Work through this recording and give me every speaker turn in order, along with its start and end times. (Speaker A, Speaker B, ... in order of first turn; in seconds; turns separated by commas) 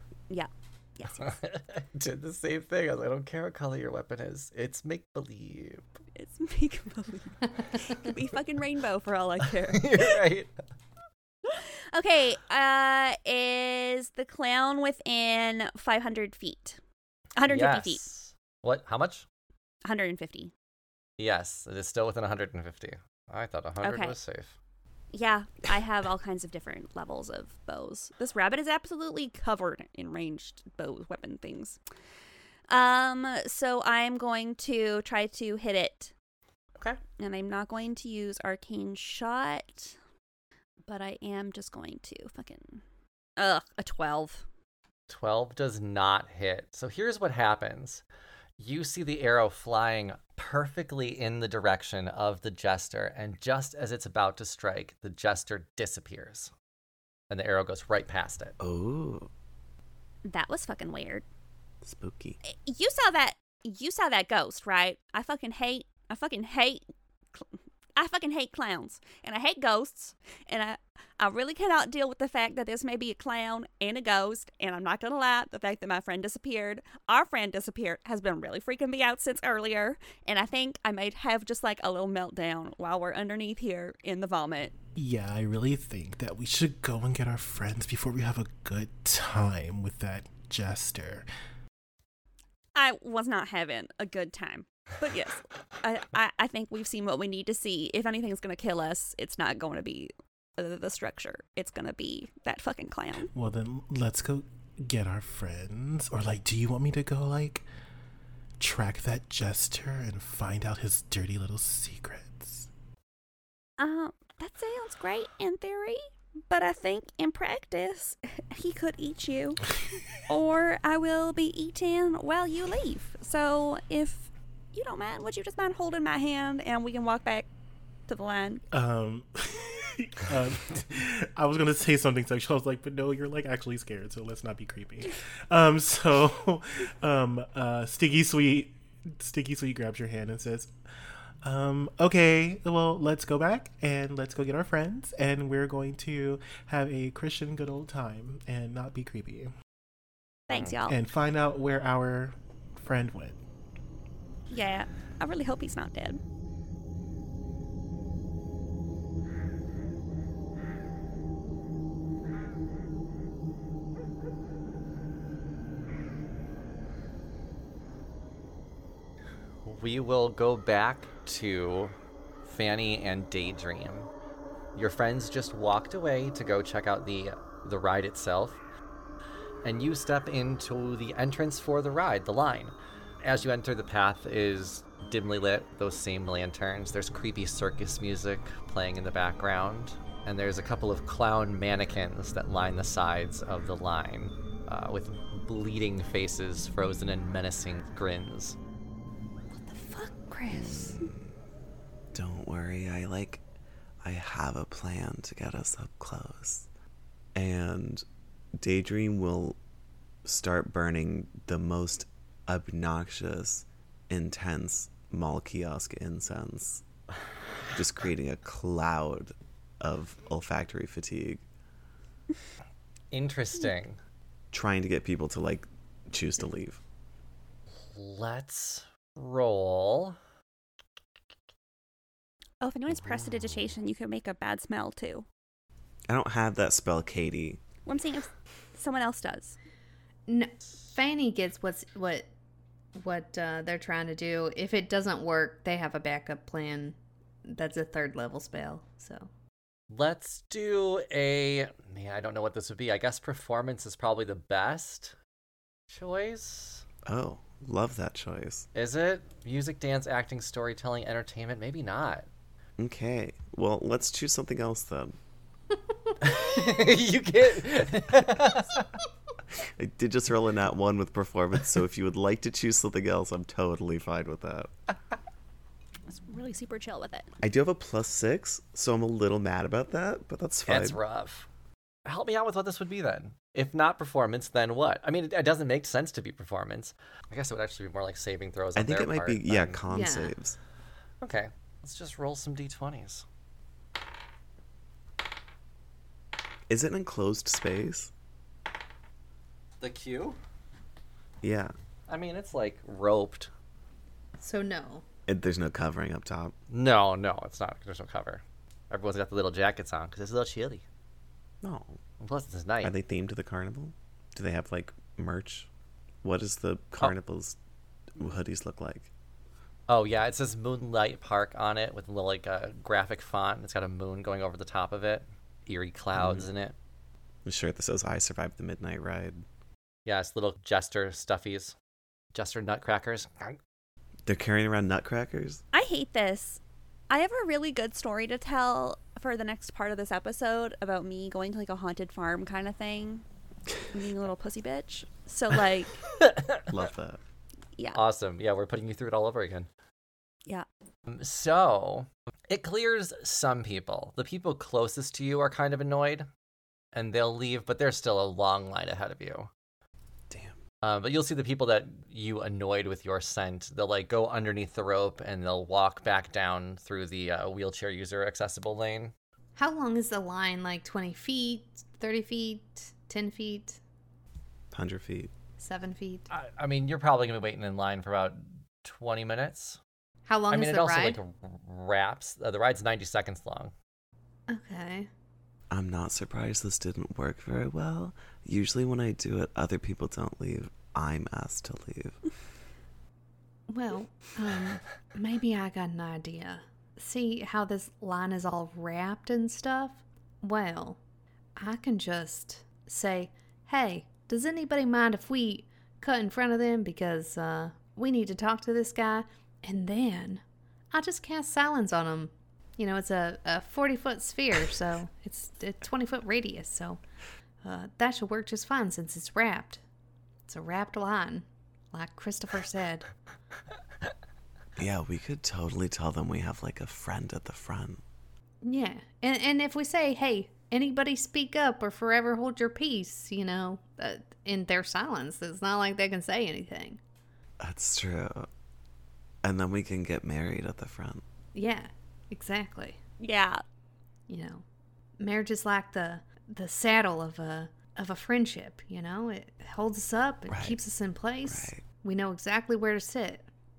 Speaker A: 0.3-1.4, Speaker B: 1.2-5.8, Speaker A: 6.2-10.2, Speaker B: 9.7-10.5, Speaker A: 11.5-16.8, Speaker A: 17.4-18.0, Speaker B: 17.5-19.3, Speaker A: 19.9-20.5, Speaker B: 21.2-24.6, Speaker A: 23.8-24.2, Speaker A: 25.1-31.8, Speaker A: 32.7-36.1, Speaker A: 37.2-40.0, Speaker A: 40.9-42.8, Speaker A: 43.4-44.5, Speaker B: 45.1-48.0, Speaker B: 48.6-56.5, Speaker B: 57.3-58.6, Speaker C: 58.6-59.3, Speaker A: 60.2-61.2, Speaker C: 61.8-62.4, Speaker A: 62.5-66.8, Speaker A: 68.0-84.8, Speaker D: 85.0-91.3, Speaker A: 92.8-103.3, Speaker D: 103.3-107.7, Speaker D: 108.6-112.7, Speaker A: 113.8-127.5, Speaker A: 128.1-128.6, Speaker D: 128.7-140.7, Speaker D: 141.4-149.5, Speaker A: 150.5-150.9, Speaker B: 150.5-150.8, Speaker D: 150.9-153.4, Speaker A: 154.5-156.2, Speaker B: 169.7-174.1, Speaker B: 174.8-178.6, Speaker B: 179.6-198.6, Speaker A: 199.5-201.1, Speaker C: 200.5-201.3, Speaker C: 202.1-203.4, Speaker C: 204.0-206.7, Speaker C: 207.3-208.0, Speaker C: 208.6-209.6, Speaker C: 210.2-216.8, Speaker C: 217.7-221.4, Speaker B: 223.1-224.0, Speaker C: 224.5-226.8, Speaker B: 227.9-230.2, Speaker A: 232.6-235.3, Speaker C: 236.1-237.6, Speaker A: 237.9-239.6, Speaker E: 240.3-242.3, Speaker E: 243.0-249.3, Speaker B: 249.9-255.2, Speaker B: 255.9-256.9, Speaker C: 257.1-258.7, Speaker B: 258.8-262.3, Speaker C: 262.8-265.2, Speaker B: 266.2-268.9, Speaker C: 269.6-274.7, Speaker A: 276.1-277.3, Speaker C: 277.4-281.0, Speaker B: 280.7-281.5, Speaker B: 282.1-289.8, Speaker C: 288.8-290.6, Speaker E: 289.9-290.4, Speaker B: 291.2-293.3, Speaker C: 296.7-298.1, Speaker B: 299.8-300.4, Speaker C: 301.4-301.7, Speaker B: 302.1-303.5, Speaker E: 304.4-305.1, Speaker C: 305.3-306.5, Speaker B: 306.7-310.9, Speaker C: 311.6-312.0, Speaker B: 312.2-312.9, Speaker C: 312.8-315.7, Speaker C: 316.2-317.6, Speaker C: 318.2-319.1, Speaker B: 319.9-326.8, Speaker C: 326.2-326.5, Speaker C: 327.4-329.4, Speaker B: 330.1-331.8, Speaker B: 332.3-333.6, Speaker C: 334.3-335.6, Speaker A: 335.7-343.2, Speaker A: 343.9-346.0, Speaker B: 346.2-346.6, Speaker C: 346.7-347.2, Speaker B: 347.9-349.7, Speaker B: 351.1-356.3, Speaker B: 356.9-359.5, Speaker C: 360.3-360.6, Speaker B: 360.8-369.1, Speaker E: 369.6-373.8, Speaker C: 374.7-375.3, Speaker E: 375.6-376.3, Speaker B: 376.3-379.8, Speaker E: 380.3-381.2, Speaker B: 380.5-383.7, Speaker E: 384.5-385.1, Speaker C: 385.7-392.2, Speaker E: 393.7-401.0, Speaker E: 401.6-417.0, Speaker E: 417.6-419.8, Speaker E: 420.5-423.1, Speaker C: 424.8-428.0, Speaker E: 428.6-437.0, Speaker C: 437.6-438.5, Speaker C: 439.4-441.2, Speaker E: 441.6-443.0, Speaker A: 443.2-443.6, Speaker E: 444.3-444.6, Speaker E: 445.2-453.5, Speaker C: 450.5-450.8, Speaker C: 451.4-451.8